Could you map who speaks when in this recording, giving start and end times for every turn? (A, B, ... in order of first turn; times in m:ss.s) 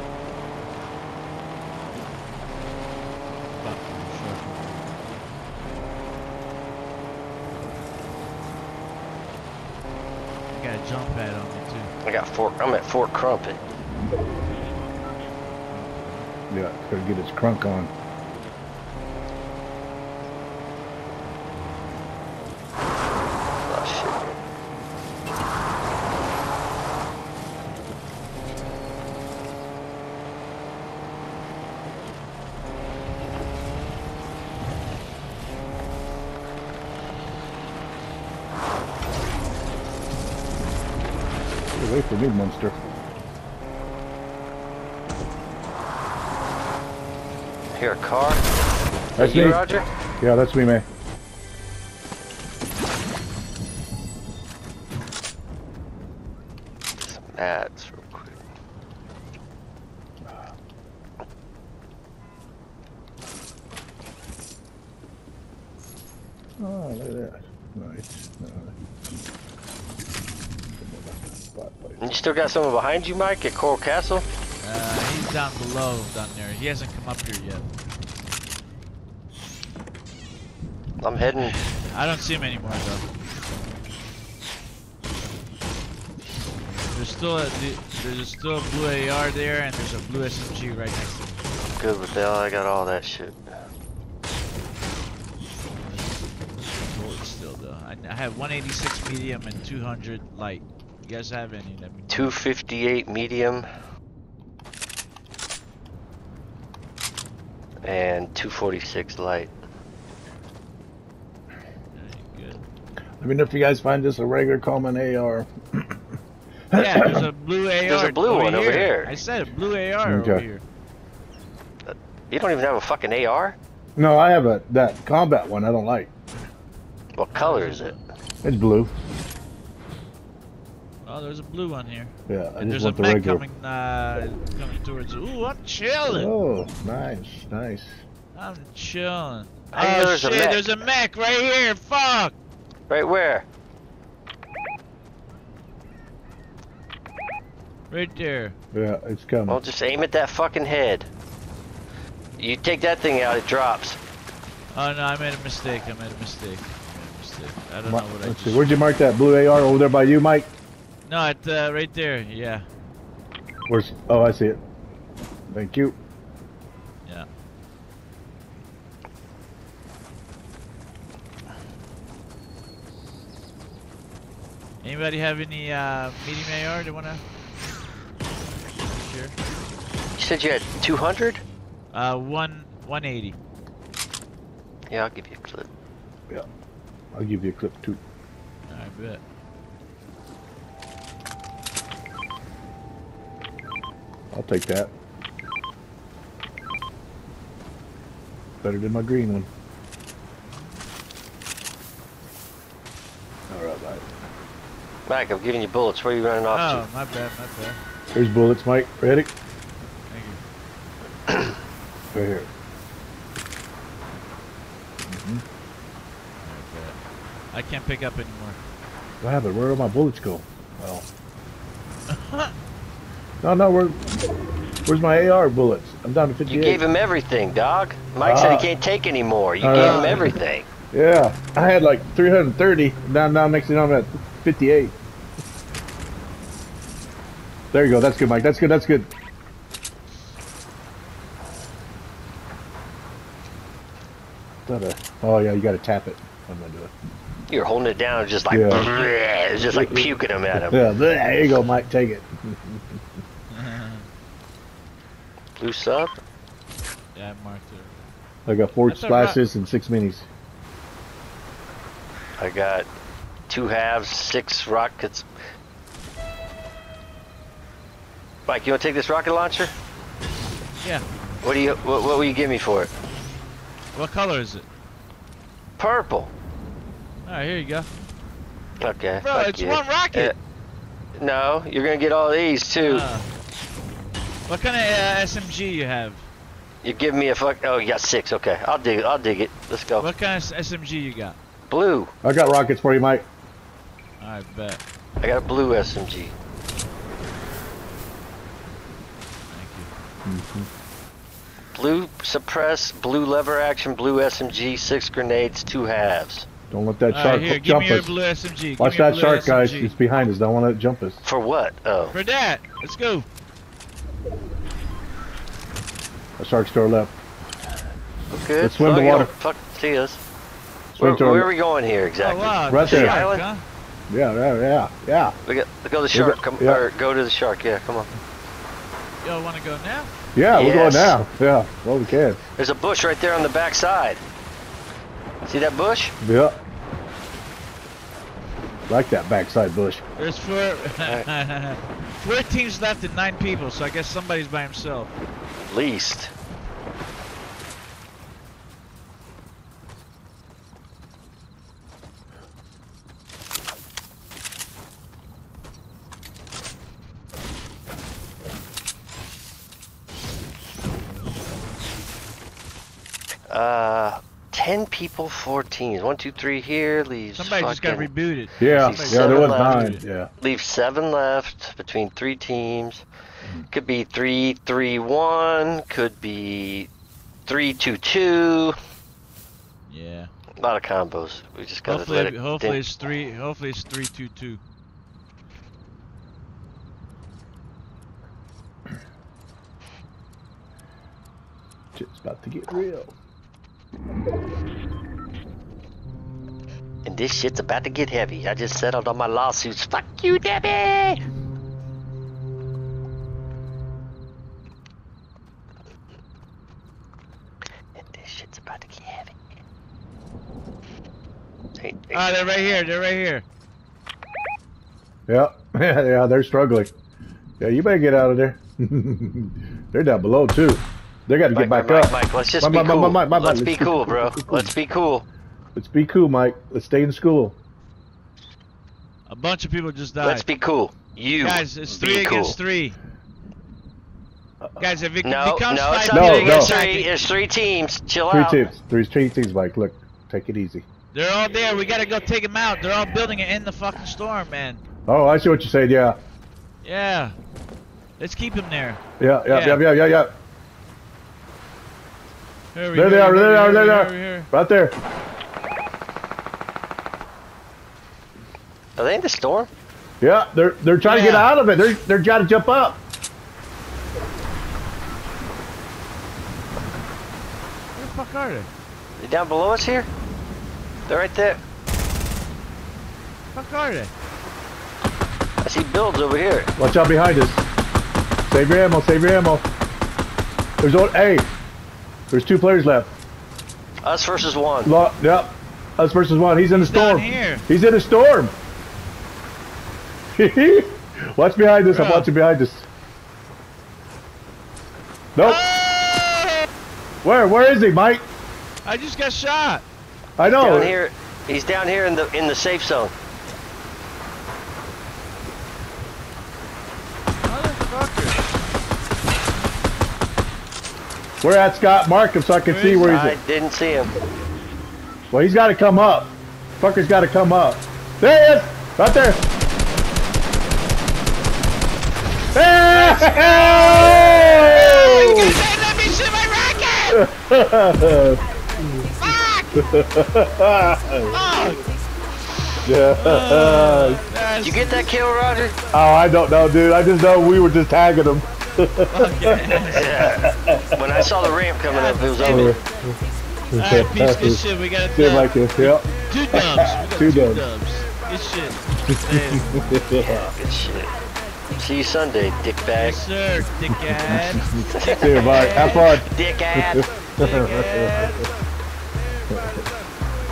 0:03.5-0:04.8 A
0:10.5-0:11.9 A
0:12.0-0:13.6 B
0:15.7-0:16.3 A
0:16.5-0:17.9 C
0:23.7-0:24.4 B
0:41.7-0:43.0 C
0:47.8-0:48.4 B
0:49.2-0:49.9 B
0:49.2-0:49.6 C
0:50.2-0:50.8 C
0:57.0-0:58.4 B
1:06.6-1:08.7 C
1:10.8-1:12.0 C
1:12.0-1:14.2 B
1:14.6-1:17.7 A
1:21.0-1:21.5 B
1:21.4-1:23.1 A
1:26.9-1:31.3 A
1:31.6-1:33.4 B
1:35.8-1:42.3 A
1:42.1-1:43.7 B
1:47.8-1:49.5 B
1:51.9-1:52.6 A
1:53.2-1:56.0 C
1:56.7-1:57.3 C
1:56.7-2:00.6 A
1:57.8-1:59.2 B
2:00.0-2:00.4 C
2:01.8-2:03.6 B
2:04.0-2:06.1 C
2:07.1-2:08.0 B
2:07.3-2:08.0 A
2:08.4-2:08.9 C
2:11.0-2:16.3 A
2:12.3-2:13.4 C
2:16.1-2:18.0 C
2:18.3-2:22.3 A
2:19.7-2:20.7 B
2:22.9-2:23.4 B
2:27.9-2:28.5 A
2:28.7-2:29.6 C
2:29.5-2:31.1 B
2:32.4-2:34.0 B
2:34.7-2:38.7 A
2:37.8-2:40.5 C
2:41.0-2:42.7 A
2:43.7-2:44.6 C
2:45.5-2:46.0 C
2:54.8-2:57.2 A
2:58.9-2:59.4 A
3:00.2-3:01.4 B
3:01.9-3:03.4 A
3:04.9-3:05.7 B
3:07.1-3:08.0 C
3:08.7-3:09.2 A
3:14.3-3:14.9 C
3:18.6-3:19.5 C
3:23.5-3:24.1 C
3:25.1-3:26.8 B
3:26.5-3:27.8 A
3:28.1-3:29.3 C
3:30.1-3:30.4 A
3:32.1-3:32.5 C
3:35.1-3:35.4 C
3:36.4-3:37.0 A
3:37.5-3:38.6 A
3:39.2-3:41.1 C
3:42.1-3:42.5 A
3:43.4-3:44.0 C
3:44.9-3:46.8 C
3:46.5-3:50.7 B
3:48.2-3:48.8 C
3:49.6-3:50.3 C
3:49.7-3:50.4 A
3:50.9-3:54.9 C
3:57.7-3:59.1 C
4:04.6-4:06.9 C
4:07.5-4:10.8 B
4:08.5-4:08.9 C
4:09.7-4:13.0 C
4:13.5-4:14.0 A
4:15.6-4:16.2 B
4:17.1-4:17.9 A
4:18.5-4:20.3 C
4:18.8-4:19.4 A
4:22.4-4:22.9 B
4:23.5-4:25.3 B
4:28.5-4:29.7 B
4:31.4-4:32.9 B
4:33.9-4:34.6 A
4:35.8-4:36.3 B
4:37.2-4:37.9 A
4:38.8-4:40.4 B
4:39.2-4:40.3 A
4:41.2-4:43.1 B
4:42.8-4:43.3 A
4:44.5-4:46.2 A
4:46.8-4:50.1 B
4:50.0-4:51.4 A
4:51.7-4:52.1 B
4:52.2-4:53.2 C
4:54.2-4:54.8 A
4:55.2-4:56.4 B
4:59.5-4:59.9 A
5:00.2-5:00.7 C
5:01.8-5:06.5 B
5:06.7-5:08.2 C
5:07.1-5:10.0 A
5:08.8-5:11.2 C
5:11.2-5:12.2 B
5:12.1-5:13.2 A
5:16.4-5:17.1 C
5:18.3-5:20.2 B
5:18.6-5:19.3 C
5:20.9-5:21.5 C
5:21.0-5:23.5 B
5:22.2-5:23.6 A
5:22.7-5:23.2 C
5:24.1-5:25.4 C
5:25.5-5:28.1 B
5:26.1-5:26.8 C
5:29.2-5:30.1 A
5:30.4-5:32.4 C
5:30.5-5:31.2 B
5:32.6-5:34.2 B
5:35.4-5:36.1 B
5:36.2-5:36.6 C
5:38.9-5:40.0 C
5:40.2-5:45.1 A
5:45.7-5:46.3 B
6:03.5-6:08.1 B
6:07.4-6:10.0 A
6:08.6-6:10.3 C
6:08.6-6:13.0 B
6:13.7-6:16.9 B
6:17.5-6:18.8 B
6:19.9-6:20.3 A
6:20.6-6:22.8 B
6:21.8-6:24.6 A
6:32.0-6:33.1 C
6:37.0-6:41.2 B
6:48.0-6:49.4 B
6:51.8-6:52.5 B
6:52.1-6:53.4 A
6:55.3-6:56.9 C
6:57.6-7:04.7 C
7:01.5-7:05.2 B
7:05.8-7:07.6 C
7:09.3-7:10.4 A
7:10.2-7:12.6 B
7:11.4-7:13.0 A
7:14.8-7:17.1 A
7:15.2-7:18.7 B
7:16.1-7:16.7 C
7:18.3-7:20.8 C
7:21.1-7:24.8 A
7:25.1-7:26.2 C
7:26.8-7:27.4 A
7:28.2-7:29.9 A
7:29.2-7:30.3 C
7:32.7-7:34.5 A
7:32.9-7:35.0 C
7:39.0-7:39.7 B
7:40.2-7:43.0 C
7:41.0-7:41.5 A
7:48.0-7:48.7 A
7:49.2-7:50.1 B
7:51.1-7:51.6 B
7:53.5-7:54.1 A
7:55.6-7:56.7 B
7:56.8-7:57.6 C
7:58.5-7:59.7 C
8:00.8-8:01.5 C
8:02.3-8:03.1 C
8:04.0-8:04.9 B
8:04.8-8:08.5 C
8:06.7-8:07.6 A
8:10.4-8:12.9 C
8:11.9-8:12.3 A
8:15.4-8:15.6 C
8:15.4-8:16.7 A
8:17.2-8:18.2 C
8:18.8-8:19.8 A
8:20.4-8:21.0 C
8:20.5-8:23.1 B
8:27.4-8:28.5 A
8:31.4-8:33.4 C
8:32.6-8:33.2 A
8:33.0-8:34.1 B
8:35.3-8:39.4 C
8:42.5-8:45.6 C
8:42.9-8:47.2 A
8:47.1-8:49.1 C
8:49.2-8:49.8 A
8:49.7-8:51.3 C
8:51.3-8:51.9 A
8:52.8-8:54.2 C
8:53.1-8:55.0 A
8:54.6-8:55.8 B
8:55.9-9:01.5 C
8:59.1-9:00.4 A
8:59.9-9:02.6 B
9:01.9-9:02.8 A
9:02.4-9:03.2 C
9:03.7-9:07.7 C
9:03.8-9:09.6 A
9:09.5-9:10.5 C
9:10.2-9:11.1 B
9:11.8-9:13.2 B
9:12.9-9:16.2 A
9:14.2-9:18.2 C
9:14.9-9:17.0 B
9:17.4-9:18.5 A
9:19.5-9:19.9 C